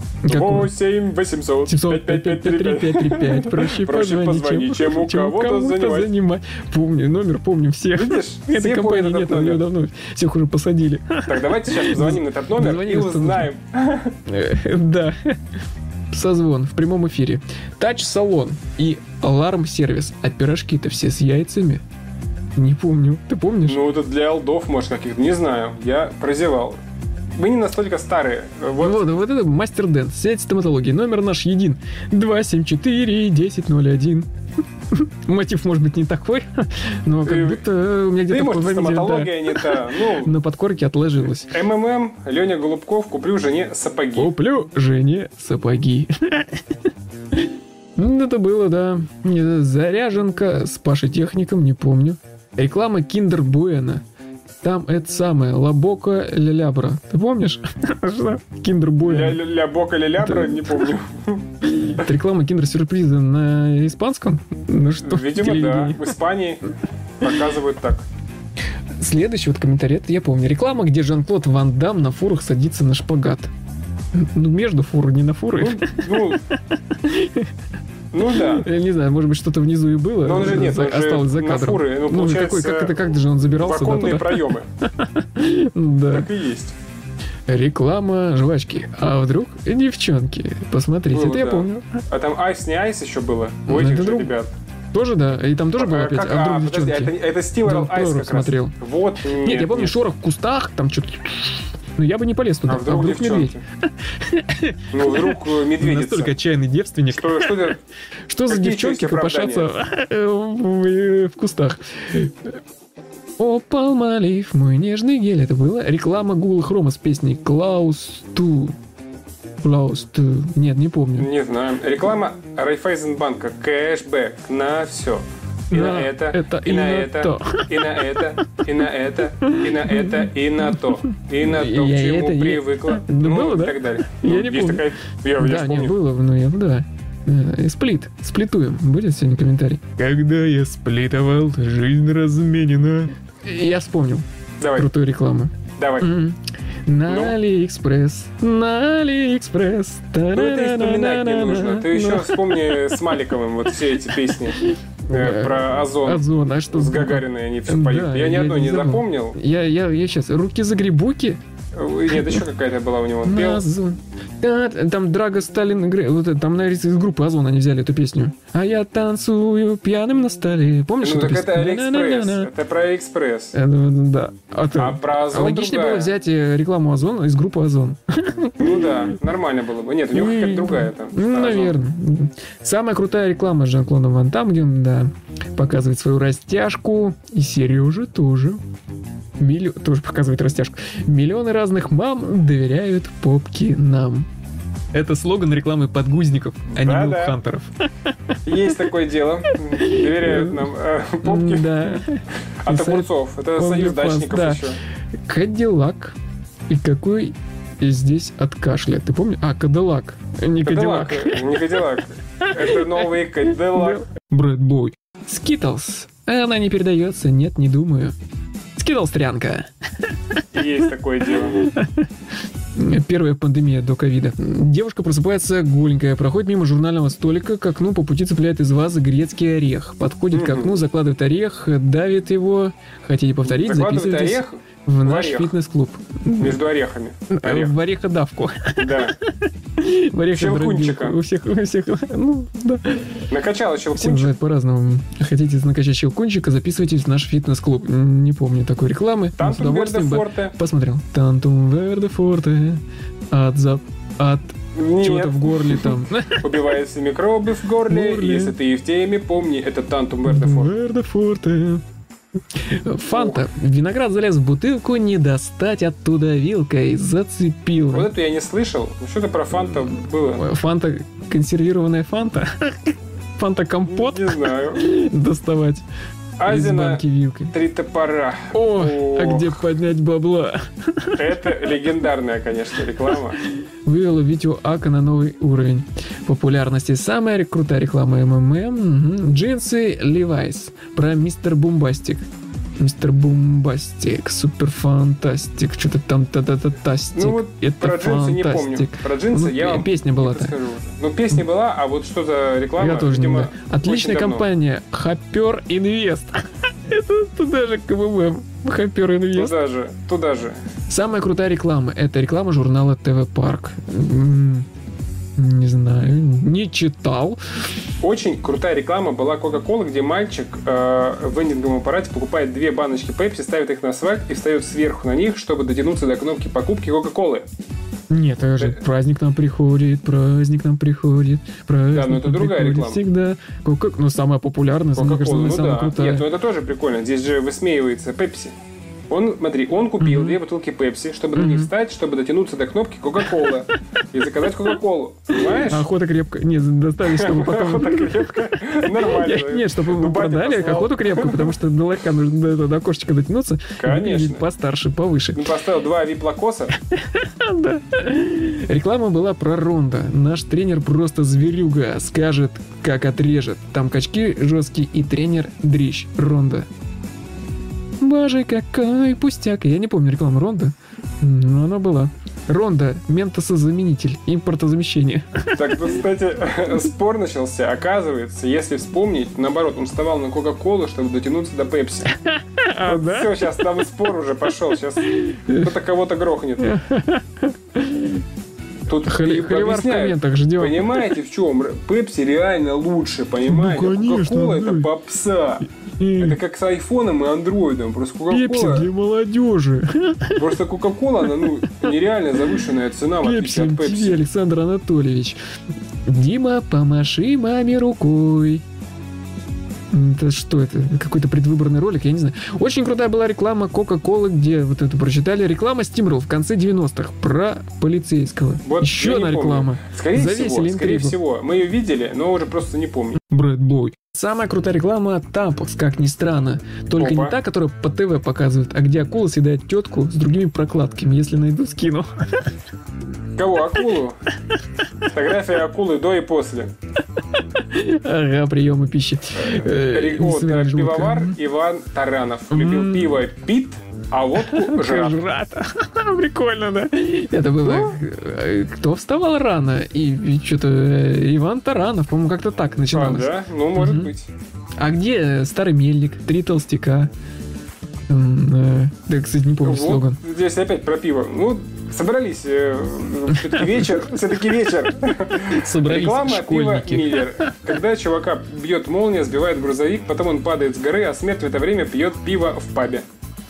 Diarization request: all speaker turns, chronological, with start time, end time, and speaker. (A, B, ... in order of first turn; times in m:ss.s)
0:00.2-0:00.7 A
0:00.3-0:06.1 B
0:01.6-0:13.5 A
0:07.9-0:09.6 B
0:11.3-0:14.2 B
0:14.2-0:15.4 A
0:16.1-0:21.8 A
0:22.6-0:23.8 A
0:23.6-0:26.8 B
0:27.3-0:29.1 B
0:28.8-0:34.3 A
0:34.9-0:41.6 A
0:37.2-0:37.6 B
0:38.3-0:40.3 B
0:41.5-0:44.3 B
0:44.2-0:46.8 A
0:47.3-0:54.0 A
0:54.6-0:59.4 A
0:59.0-1:02.0 B
1:00.2-1:00.9 A
1:01.6-1:06.1 A
1:05.0-1:06.6 B
1:07.2-1:08.0 B
1:09.0-1:13.5 A
1:14.1-1:17.5 A
1:15.6-1:16.4 B
1:18.1-1:18.7 B
1:18.3-1:26.3 A
1:20.2-1:24.7 B
1:26.1-1:26.8 B
1:27.5-1:32.0 A
1:31.1-1:34.5 B
1:33.7-1:34.3 A
1:34.9-1:38.7 A
1:35.8-1:40.0 B
1:39.4-1:47.7 A
1:42.6-1:43.6 B
1:44.9-1:46.3 B
1:47.1-1:47.8 B
1:48.3-1:52.6 A
1:48.5-1:49.7 B
1:53.4-1:58.8 A
1:59.6-2:01.3 A
2:01.2-2:15.9 B
2:05.7-2:08.6 A
2:09.4-2:33.0 A
2:24.6-2:24.9 B
2:25.8-2:26.1 B
2:27.0-2:27.4 B
2:30.3-2:39.4 B
2:34.5-2:41.4 A
2:41.7-2:43.6 B
2:42.1-2:42.4 A
2:43.2-2:52.5 A
2:51.0-2:53.6 B
2:53.5-2:59.1 A
2:54.8-2:56.1 B
2:58.6-3:01.8 B
3:00.1-3:08.6 A
3:09.4-3:14.3 A
3:14.9-3:18.8 A
3:16.7-3:17.4 B
3:18.4-3:22.0 B
3:19.5-3:20.7 A
3:21.2-3:24.6 A
3:22.6-3:24.8 B
3:25.3-3:26.2 A
3:26.7-3:31.7 A
3:30.6-3:34.0 B
3:32.4-3:38.1 A
3:38.8-3:42.1 A
3:40.5-3:41.6 B
3:42.7-3:56.6 A
3:50.3-3:50.8 B
3:53.4-3:55.5 B
3:56.4-3:57.7 B
3:57.3-4:03.3 A
3:58.8-3:59.2 B
4:00.3-4:01.2 B
4:03.3-4:04.3 B
4:03.9-4:16.6 A
4:09.4-4:10.5 B
4:14.7-4:20.7 B
4:17.9-4:18.6 A
4:20.2-4:21.8 A
4:22.5-4:28.1 A
4:23.1-4:23.4 B
4:27.9-4:30.4 B
4:30.4-4:35.8 A
4:33.9-4:34.9 B
4:36.4-4:39.6 B
4:36.5-4:37.5 A
4:38.5-4:41.6 A
4:41.2-4:43.4 B
4:43.4-4:52.2 A
4:52.8-5:00.5 A
4:57.1-5:04.5 B
5:02.8-5:09.5 A
5:09.3-5:10.6 B
5:10.9-5:14.7 A
5:15.4-5:17.4 A
5:18.0-5:27.5 B
5:28.1-5:36.3 A
5:31.9-5:33.0 B
5:34.9-5:38.6 B
5:39.1-5:45.9 B
5:40.0-5:40.4 A
5:41.3-5:41.7 A
5:45.4-5:55.5 A
5:47.0-5:51.6 B
5:53.8-5:54.4 B
5:55.4-5:56.7 B
5:56.8-6:06.7 A
6:08.0-6:15.8 A
6:15.5-6:22.1 B
6:22.1-6:23.4 A
6:22.8-6:26.7 B
6:25.0-6:25.7 A
6:26.6-6:28.2 A
6:28.9-6:35.6 B
6:29.0-6:31.1 A
6:33.4-6:34.9 A
6:36.0-6:36.4 A
6:36.2-6:38.9 B
6:38.3-6:40.5 A
6:40.4-6:44.2 B
6:41.4-6:41.7 A
6:43.2-6:45.4 A
6:46.0-6:48.6 A
6:49.9-7:01.2 A
6:58.6-7:03.2 B
7:03.2-7:12.5 A
7:07.0-7:07.4 B
7:13.4-7:14.2 B
7:15.1-7:16.7 B
7:17.3-7:21.4 A
7:19.4-7:25.2 B
7:22.5-7:23.2 A
7:24.4-7:34.1 A
7:27.6-7:28.0 B
7:32.9-7:34.3 B
7:34.8-7:37.1 A
7:38.1-7:40.2 A
7:39.6-7:53.0 B
7:43.3-7:44.1 A
7:45.4-7:47.6 A